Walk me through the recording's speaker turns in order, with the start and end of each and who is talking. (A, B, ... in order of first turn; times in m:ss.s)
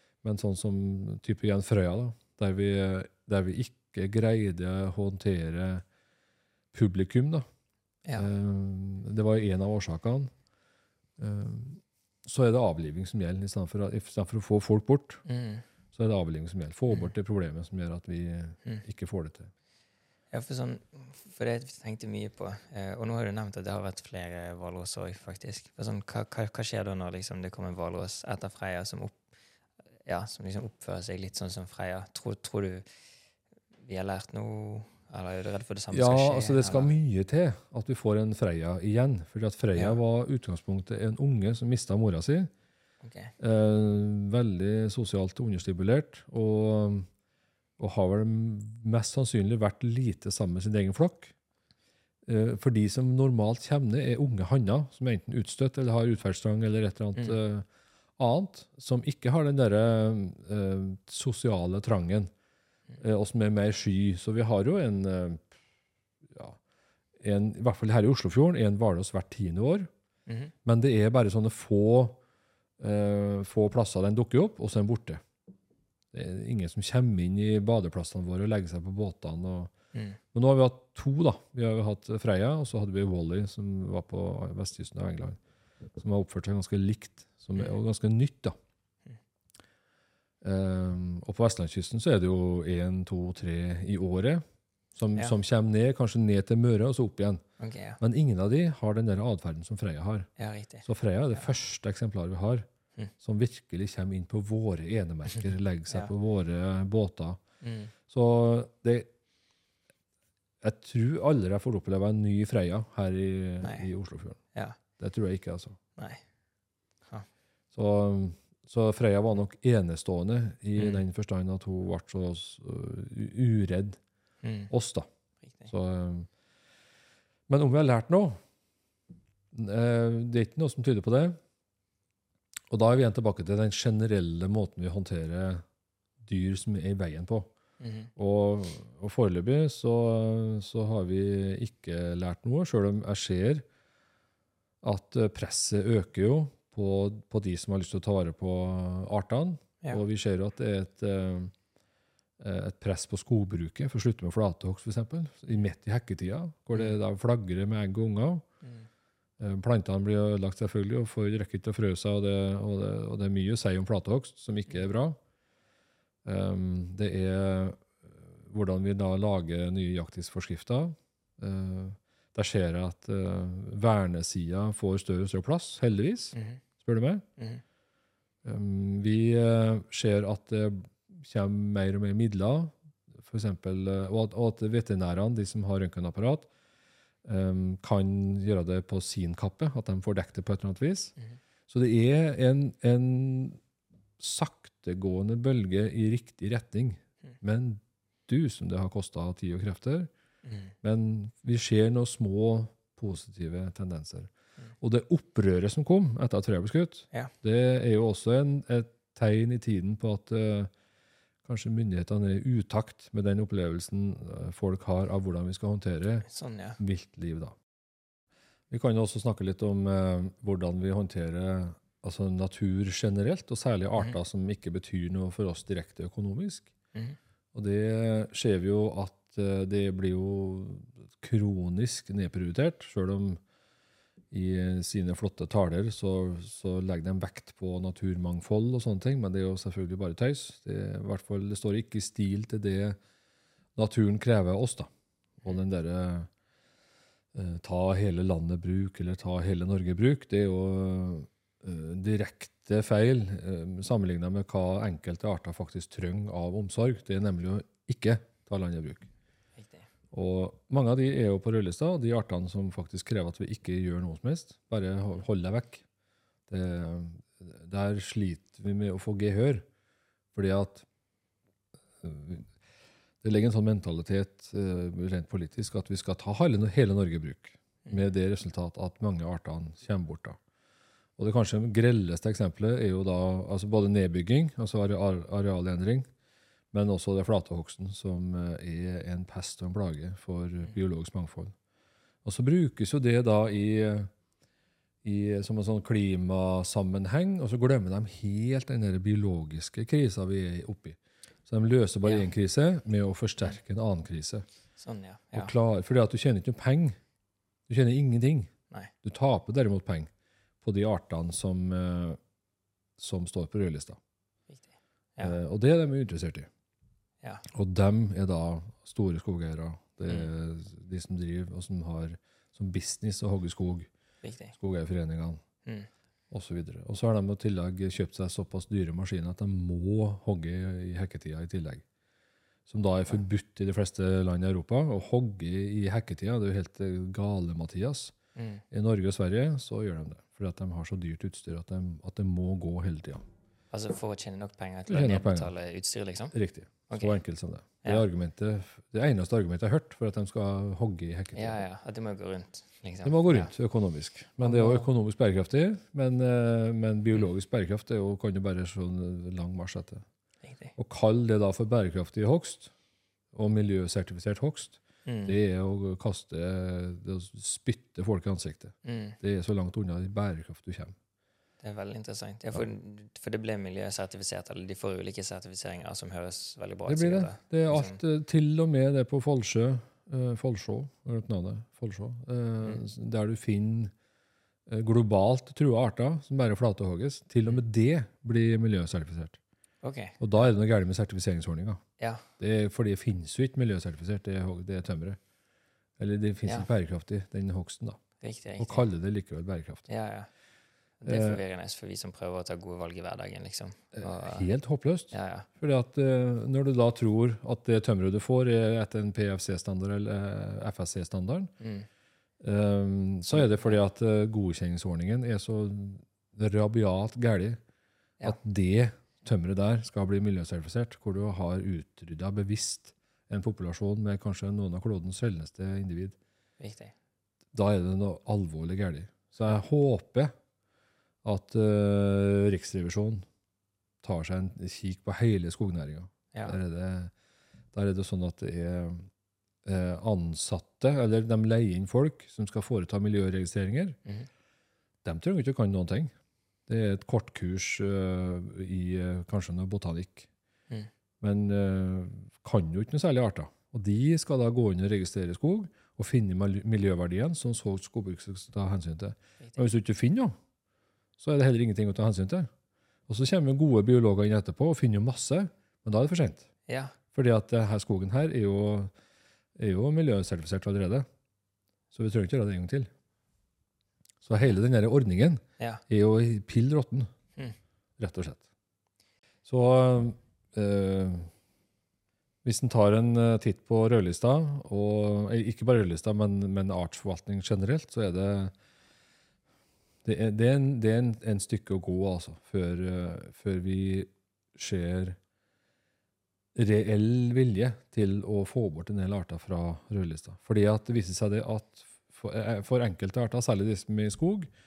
0:00.2-0:05.8 A
0:06.7-0:07.4 A
0:08.2-0:10.3 A
0:11.2-0:15.2 A
0:15.2-0:15.6 B
0:15.9-0:19.5 A
0:20.3-0:29.2 B
0:30.0-0:32.9 B
0:33.8-0:36.9 B
0:35.9-0:42.5 A
0:39.7-0:40.0 B
0:43.0-0:43.3 B
0:43.4-0:47.1 A
0:47.8-0:51.3 A
0:52.2-0:57.6 A
0:58.2-1:02.3 A
1:03.0-1:05.4 A
1:06.3-1:06.6 A
1:07.2-1:09.9 A
1:10.3-1:10.5 B
1:10.6-1:12.2 A
1:12.8-1:15.2 A
1:16.1-1:19.7 A
1:19.9-1:20.2 B
1:20.3-1:25.4 A
1:26.0-1:28.5 A
1:30.4-1:34.4 A
1:35.0-1:37.4 A
1:37.6-1:38.0 B
1:38.0-1:40.3 A
1:40.4-1:40.8 B
1:40.8-1:42.6 A
1:43.2-1:47.4 A
1:47.6-1:47.9 B
1:48.1-1:49.1 A
1:50.6-1:54.4 A
1:53.6-1:53.9 B
1:55.0-1:55.8 A
1:57.7-2:04.0 A
2:00.8-2:01.0 B
2:04.4-2:04.7 B
2:04.7-2:05.1 A
2:05.7-2:06.3 A
2:07.5-2:08.4 A
2:09.5-2:11.4 A
2:12.7-2:15.6 A
2:16.2-2:17.5 A
2:17.8-2:18.1 B
2:18.2-2:23.6 A
2:24.8-2:31.5 A
2:32.4-2:38.4 A
2:39.4-2:45.2 A
2:46.2-2:57.2 A
2:56.3-2:56.6 B
2:58.4-3:06.5 A
3:07.2-3:11.1 A
3:11.7-3:13.6 A
3:14.2-3:20.1 A
3:20.4-3:20.7 B
3:20.8-3:24.3 A
3:24.8-3:30.7 A
3:31.4-3:36.2 A
3:36.3-3:36.8 B
3:36.8-3:37.5 A
3:38.7-3:46.7 A
3:47.5-3:53.4 A
3:54.3-4:03.0 A
4:03.8-4:04.9 A
4:05.4-4:06.3 A
4:07.3-4:19.1 A
4:19.6-4:19.9 B
4:20.1-4:25.8 A
4:26.5-4:29.6 A
4:30.3-4:30.8 A
4:32.0-4:32.5 A
4:33.2-4:40.4 A
4:41.2-4:46.1 A
4:46.7-4:51.5 A
4:52.2-4:54.1 A
4:55.0-5:04.4 A
5:02.0-5:02.3 B
5:04.8-5:05.5 B
5:05.3-5:07.0 A
5:07.7-5:08.5 A
5:09.0-5:10.1 A
5:10.6-5:12.2 A
5:13.0-5:14.0 A
5:14.5-5:15.4 B
5:15.2-5:16.5 A
5:17.5-5:23.9 A
5:24.2-5:24.5 B
5:24.5-5:25.4 A
5:26.3-5:31.8 A
5:32.7-5:38.1 A
5:38.4-5:38.6 B
5:38.7-5:43.2 A
5:43.7-5:46.3 B
5:44.9-5:45.5 A
5:46.3-5:51.6 A
5:46.9-5:47.2 B
5:51.3-5:53.5 B
5:53.0-6:00.0 A
5:54.4-5:54.9 B
6:00.4-6:00.7 B
6:00.8-6:02.7 A
6:03.3-6:10.9 A
6:05.0-6:05.4 B
6:08.8-6:09.2 B
6:11.6-6:18.0 B
6:16.9-6:23.9 A
6:24.7-6:29.4 A
6:29.8-6:30.4 B
6:30.2-6:31.8 A
6:32.0-6:32.2 B
6:32.4-6:35.2 A
6:36.0-6:38.0 A
6:38.2-6:38.9 B
6:38.6-6:39.9 A
6:39.9-6:40.3 B
6:41.0-6:44.5 B
6:41.0-6:41.4 A
6:43.9-6:51.5 A
6:45.1-6:45.5 B
6:51.6-6:51.9 B
6:52.4-6:57.6 A
6:53.3-6:53.8 B
6:58.2-7:06.2 A
7:06.6-7:06.9 B
7:07.5-7:10.3 A
7:11.2-7:13.2 A
7:14.0-7:17.1 A
7:17.7-7:19.1 A
7:19.6-7:24.0 A
7:25.0-7:26.1 A
7:26.7-7:30.3 A
7:31.2-7:40.3 A
7:41.2-7:42.5 A
7:43.1-7:46.5 A
7:46.7-7:47.0 B
7:47.1-7:48.9 A
7:49.6-7:51.1 A
7:51.9-7:52.9 A
7:54.2-7:57.1 A
7:58.0-7:58.4 A
7:59.4-8:01.3 A
8:02.4-8:08.5 A
8:10.0-8:15.2 A
8:16.5-8:24.5 A